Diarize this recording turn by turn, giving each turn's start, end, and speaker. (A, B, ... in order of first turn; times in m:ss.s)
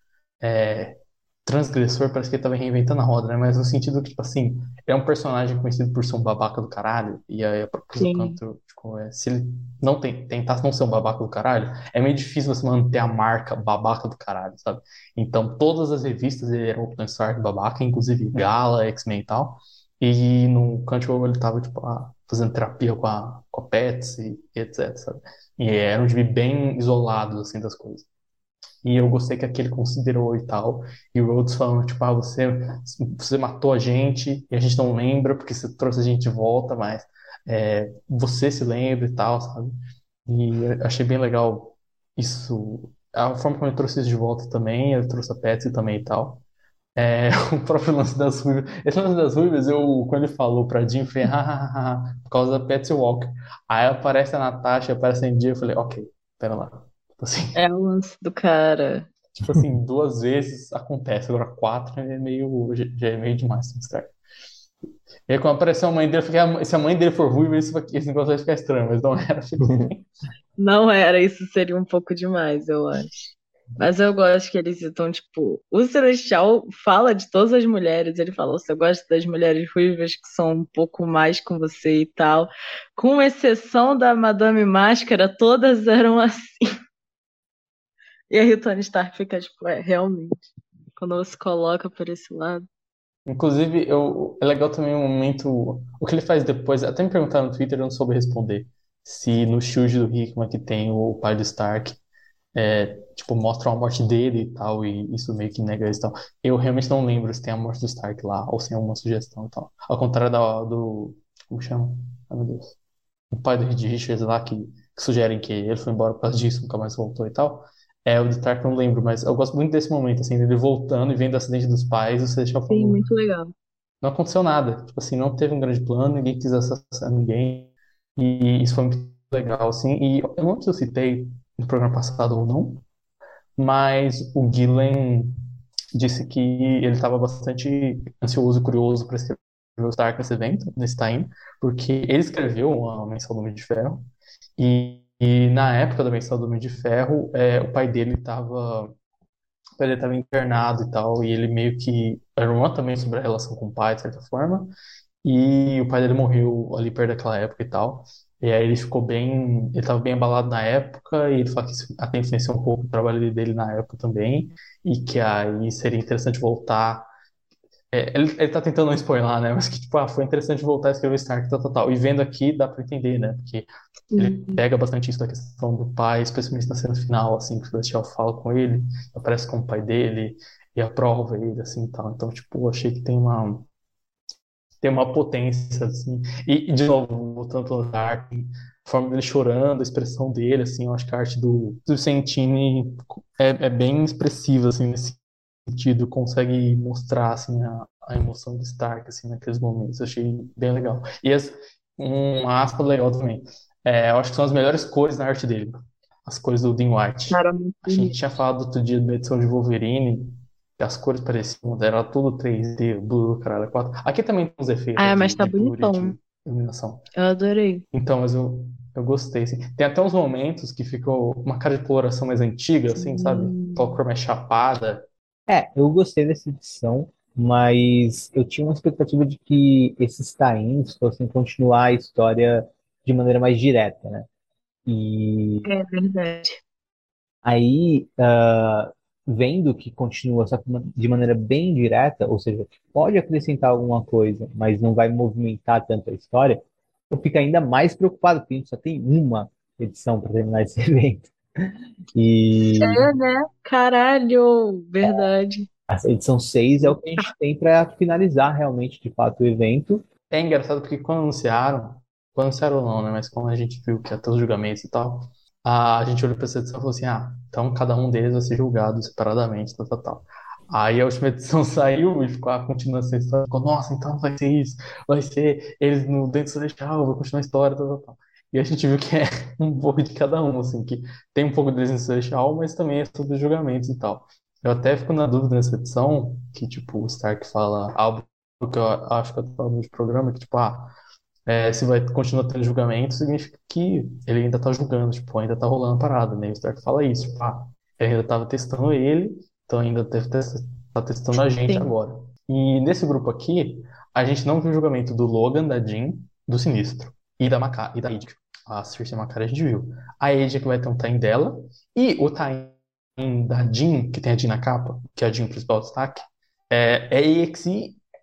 0:00.4-0:28.1 A
0:08.0-0:08.4 B
0:28.8-0:46.4 A
0:47.0-0:57.6 A
0:57.6-0:59.1 B
0:59.4-1:04.2 A
1:05.3-1:10.1 A
1:10.6-1:26.7 B
1:28.3-1:32.6 B
1:33.3-1:42.0 A
1:42.6-1:52.8 A
1:53.3-2:03.0 A
2:02.7-2:03.5 B
2:04.0-2:12.8 A
2:13.6-2:15.4 A
2:15.9-2:28.9 A
2:29.8-2:34.7 A
2:35.2-2:47.1 A
2:47.9-3:03.7 A
2:54.1-2:54.6 B
3:04.8-3:37.0 A
3:27.3-3:28.2 B
3:35.0-3:36.2 B
3:37.2-3:37.8 B
3:37.9-3:45.0 A
3:43.0-3:43.9 B
3:45.5-3:54.3 C
3:54.9-3:55.7 C
3:55.7-3:56.6 B
3:57.4-4:13.1 C
4:12.8-4:15.7 B
4:15.9-4:20.0 C
4:16.9-4:17.2 B
4:20.3-4:50.9 A
4:51.5-5:18.0 A